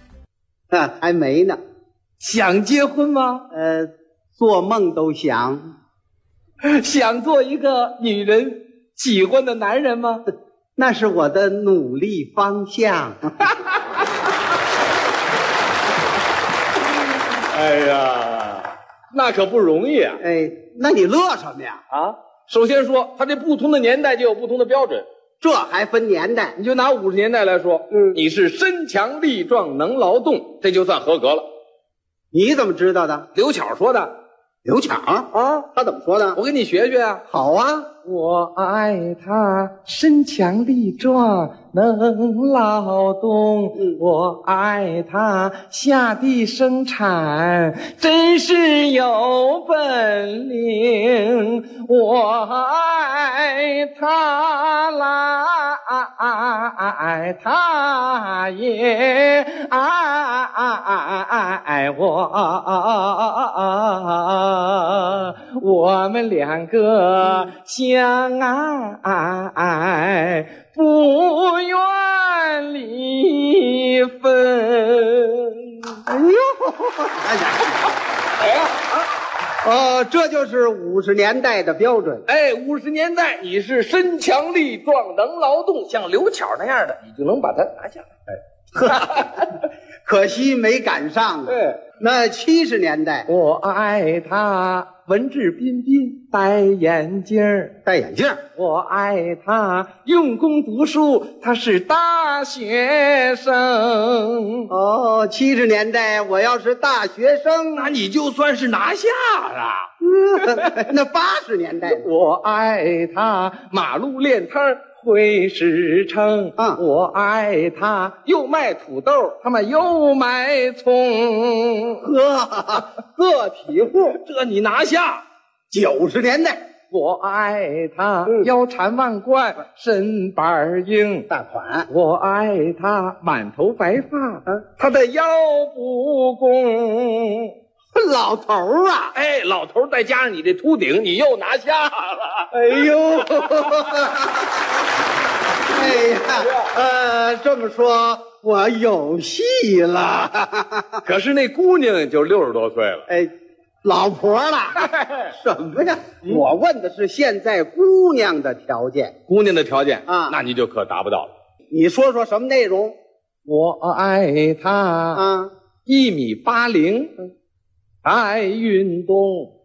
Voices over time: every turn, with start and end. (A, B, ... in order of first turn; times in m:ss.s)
0:00.7-0:01.6 A
0:02.2-0:03.4 B
0:03.5-0:05.6 A
0:06.6-0:10.2 B
0:10.8-0:13.3 A
0:17.5-0:20.2 B
0:20.2-0:21.8 A
0:21.9-0:25.0 B
0:25.4-0:26.6 A
0:26.6-0:31.4 B
0:32.3-0:33.3 A
0:33.4-0:34.1 B
0:34.6-0:36.4 A
0:35.3-0:35.7 B
0:36.4-0:37.2 B
0:37.3-0:37.9 A
0:38.0-1:15.7 B
1:16.0-1:17.8 A
1:18.4-1:18.9 B
1:19.6-1:22.2 A
1:22.3-1:28.1 B
1:28.8-1:29.3 A
1:28.9-1:29.4 B
1:30.0-1:33.3 A
1:31.5-1:31.8 B
1:33.3-1:37.7 B
1:37.8-1:38.4 A
1:38.6-1:44.7 B
1:44.7-1:47.9 A
1:47.8-1:49.8 B
1:50.0-1:52.0 A
1:51.9-2:02.0 B
2:02.0-2:04.1 A
2:03.9-2:05.2 B
2:05.7-2:06.6 A
2:06.9-2:11.3 B
2:11.3-2:11.9 A
2:11.9-2:17.5 B
2:17.9-2:19.1 A
2:19.1-2:22.5 B
2:22.5-2:24.4 A
2:25.7-2:31.0 A
2:31.0-2:33.0 B
2:33.8-2:39.2 A
2:34.8-2:35.3 B
2:39.3-2:41.3 B
2:40.1-2:40.4 A
2:41.7-2:42.9 A
2:43.4-2:45.2 B
2:45.1-2:45.5 A
2:45.8-2:47.2 B
2:48.0-2:49.5 B